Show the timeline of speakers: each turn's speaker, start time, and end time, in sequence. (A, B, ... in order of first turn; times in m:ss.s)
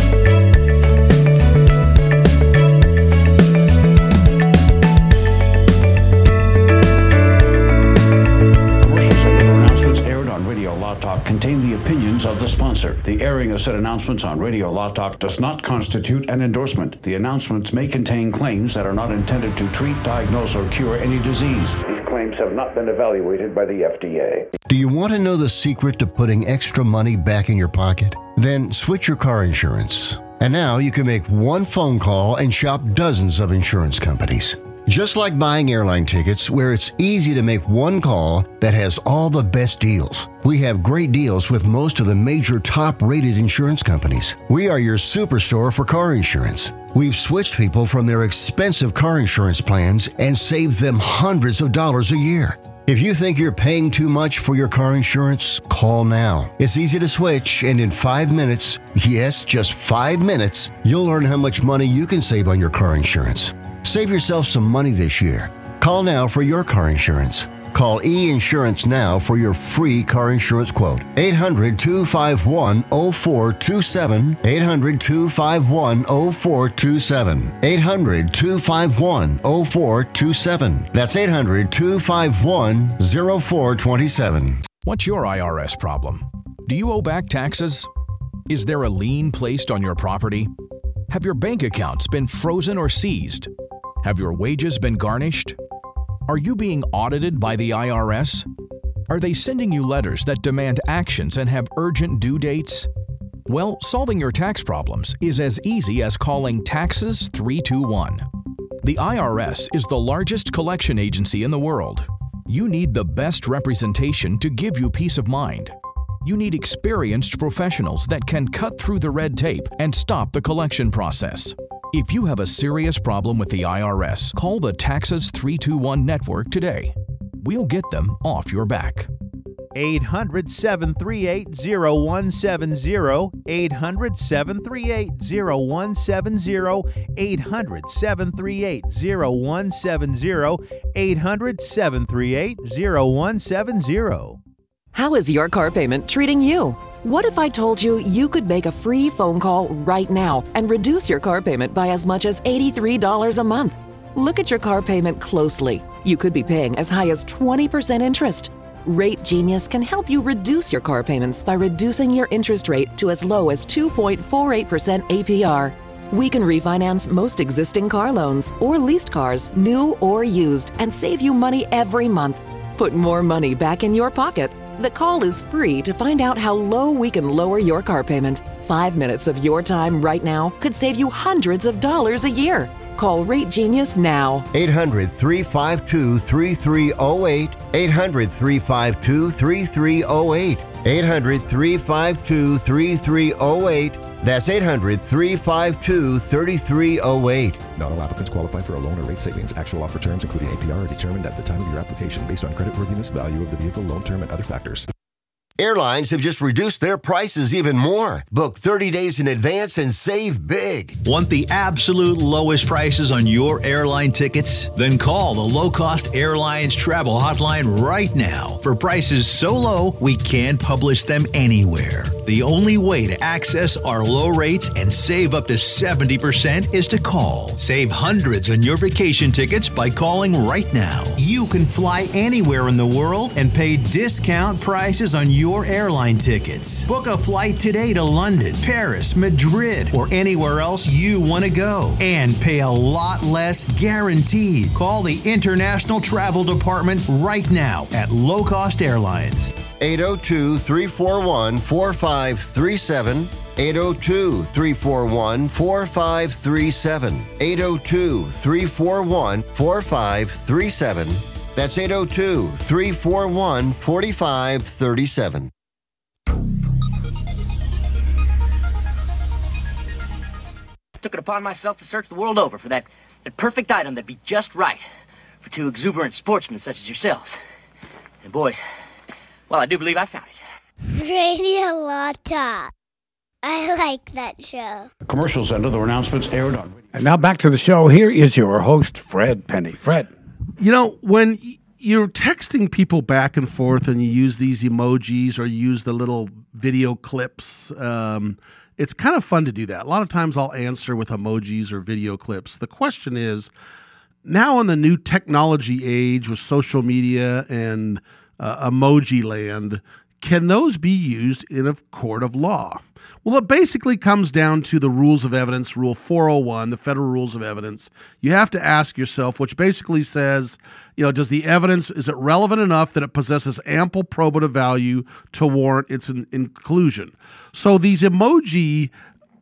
0:08.8-0:24.4 A
0:22.1-0:23.8 B
0:24.7-1:24.6 C
1:24.8-1:27.9 D
1:28.5-1:30.5 D
1:31.1-1:33.5 D
1:34.0-1:35.6 D
1:36.3-1:38.5 D
1:39.1-1:42.9 D
1:43.5-1:48.2 D
1:48.8-2:09.1 D
2:09.8-2:24.4 E
2:24.9-3:04.5 F
3:04.5-3:17.7 C
3:17.7-3:24.9 G
3:25.6-3:31.0 C
3:31.0-4:09.6 H
4:09.8-4:25.5 C
4:31.0-4:34.8 I
4:35.4-4:37.4 I
4:38.2-4:38.6 I
4:39.5-4:40.4 I
4:40.9-4:42.7 J
4:43.4-4:44.9 J
4:45.0-4:46.9 A
4:46.9-4:50.1 B
4:50.6-5:03.5 K
5:04.2-5:28.9 K